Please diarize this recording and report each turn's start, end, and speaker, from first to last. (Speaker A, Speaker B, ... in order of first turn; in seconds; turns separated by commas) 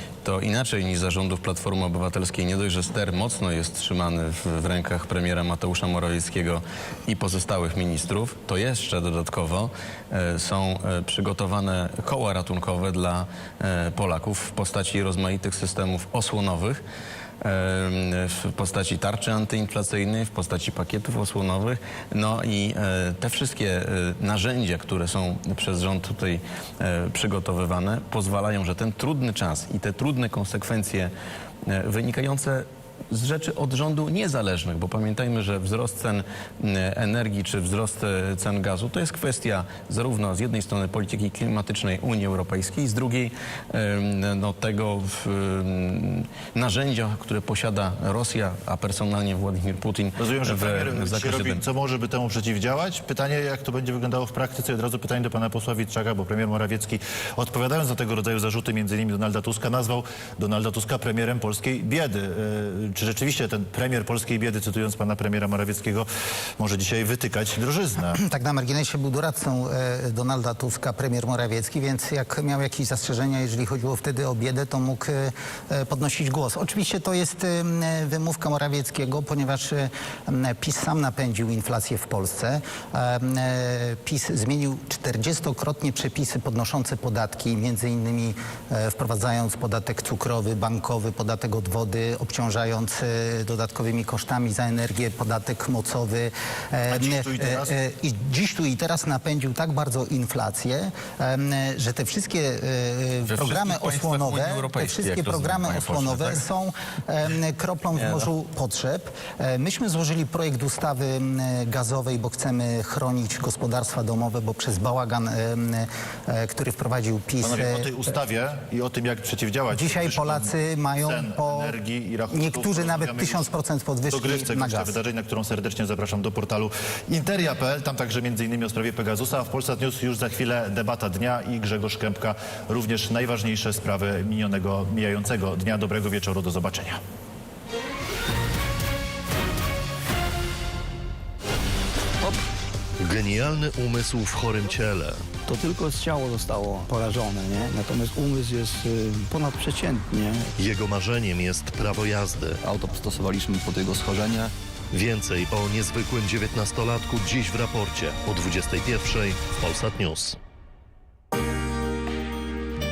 Speaker A: 0.2-16.8, Speaker A: 17.4-31.1, Speaker A: 31.7-51.6, Speaker B: 50.2-66.1, Speaker B: 66.6-68.2, Speaker C: 68.1-117.9, Speaker B: 96.9-97.8, Speaker A: 103.3-106.4, Speaker A: 108.0-108.3, Speaker B: 117.4-123.5, Speaker C: 119.7-121.8, Speaker C: 122.3-125.0, Speaker B: 124.1-137.0, Speaker D: 143.0-145.3, Speaker E: 145.5-150.5, Speaker D: 150.6-152.6, Speaker E: 152.6-154.4, Speaker D: 154.4-160.4